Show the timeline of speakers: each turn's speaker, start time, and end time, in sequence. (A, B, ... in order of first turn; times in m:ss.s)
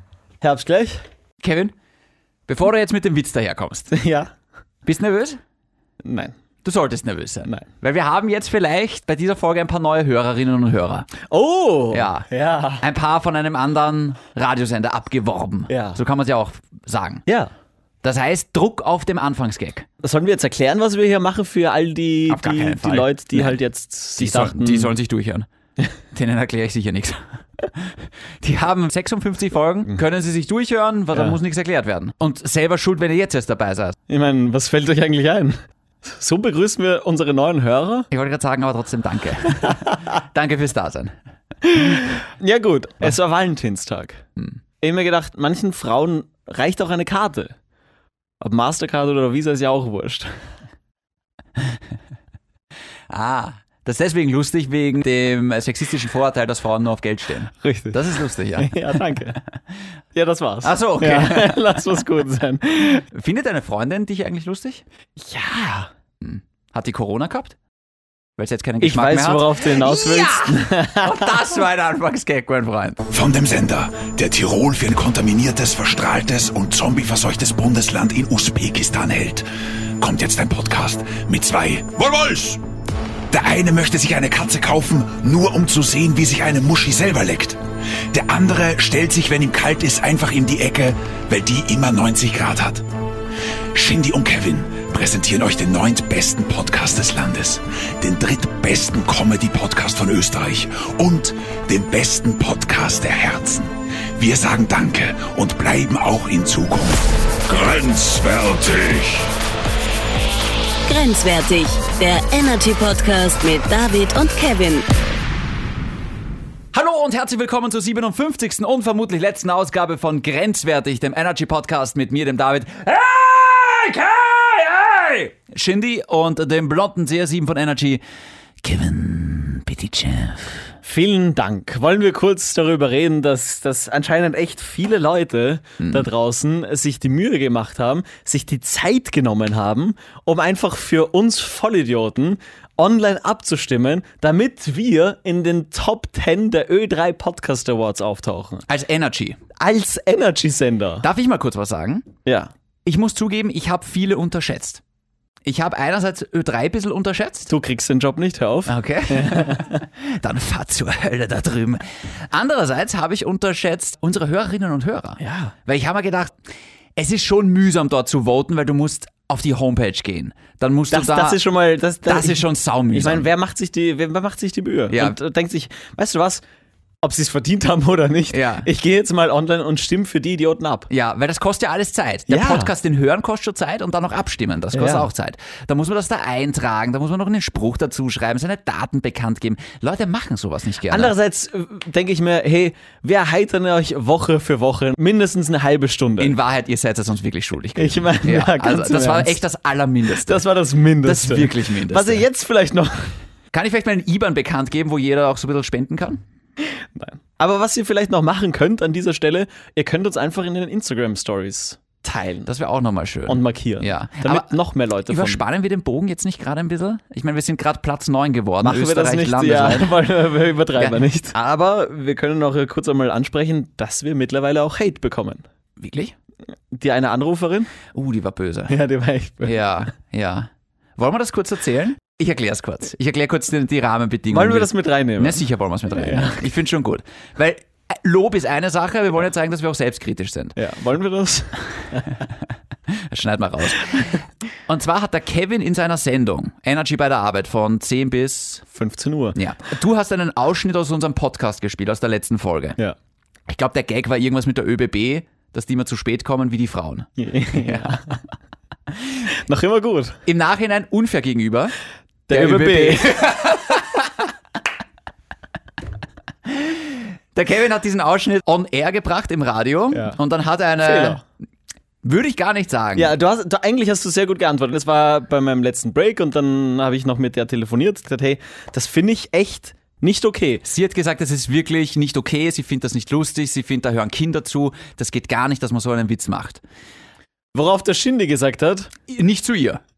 0:00.4-0:01.0 A
0:01.4-0:01.8 B
0:02.5-0:04.0 B
0:03.9-0:04.3 A
0:04.8-0:05.4 B
0:06.0-0:06.4 A
0:06.6-0:11.1 B
0:11.3-0:12.8 A
0:11.9-0:12.3 B
0:12.8-0:17.2 B
0:15.7-0:16.0 A
0:18.0-0:19.9 B
0:20.0-0:25.0 A
0:22.3-0:23.6 B
0:24.2-0:25.5 B
0:26.1-0:34.0 B
0:34.1-0:38.1 A
0:38.1-0:41.2 B
0:39.5-0:40.0 A
0:41.6-0:44.2 A
0:44.8-0:47.6 A
0:48.4-0:50.4 A
0:53.1-0:58.8 B
0:57.6-0:59.4 A
1:00.1-1:03.1 A
1:00.6-1:01.8 B
1:03.1-1:04.8 B
1:05.2-1:05.9 A
1:06.2-1:07.6 B
1:08.4-1:13.7 B
1:08.8-1:11.3 A
1:13.2-1:19.4 C
1:20.0-1:22.6 C
1:20.8-1:22.5 B
1:23.3-1:23.6 B
1:23.3-1:27.6 C
1:24.6-1:25.2 B
1:28.1-1:28.6 B
1:28.3-1:32.8 C
1:29.7-1:30.8 B
1:31.3-1:32.8 B
1:33.8-1:49.2 C
1:34.5-1:35.0 B
1:50.9-1:54.9 D
1:56.7-2:08.0 B
2:08.6-2:10.6 B
2:10.8-2:28.7 A
2:15.8-2:16.1 B
2:28.7-2:29.4 B
2:29.6-2:31.1 A
2:31.0-2:32.1 B
2:32.2-2:32.5 A
2:32.8-2:34.8 B
2:35.4-2:37.5 B
2:37.5-2:39.8 A
2:38.7-2:46.4 B
2:45.2-2:45.5 A
2:47.0-2:51.4 B
2:50.9-2:56.4 A
2:52.0-2:53.3 B
2:54.9-2:55.2 B
2:57.0-3:00.9 A
2:58.3-2:58.7 B
3:00.9-3:11.1 B
3:02.3-3:02.7 A
3:04.7-3:05.1 A
3:10.9-3:16.4 A
3:16.2-3:20.4 B
3:17.8-3:19.4 A
3:20.2-3:23.2 A
3:21.0-3:22.3 B
3:23.5-3:26.2 B
3:26.6-3:32.5 A
3:32.5-3:40.0 B
3:33.3-3:35.4 A
3:38.6-3:45.4 A
3:40.8-3:41.4 B
3:45.8-3:46.2 B
3:46.7-3:47.7 A
3:47.9-3:48.8 B
3:48.7-3:49.9 A
3:49.4-4:00.6 B
3:54.3-3:56.4 A
4:00.6-4:02.2 A
4:02.9-4:08.6 B
4:08.7-4:09.4 A
4:09.4-4:12.8 B
4:13.5-4:18.0 B
4:17.2-4:18.2 A
4:19.2-4:20.2 A
4:20.3-4:21.7 B
4:22.3-4:23.4 A
4:22.3-4:24.3 B
4:26.5-4:31.2 B
4:29.9-4:30.2 A
4:30.8-4:31.2 A
4:32.0-4:33.1 B
4:33.0-4:40.6 A
4:40.6-4:46.6 B
4:47.5-4:48.9 A
4:49.1-4:49.8 B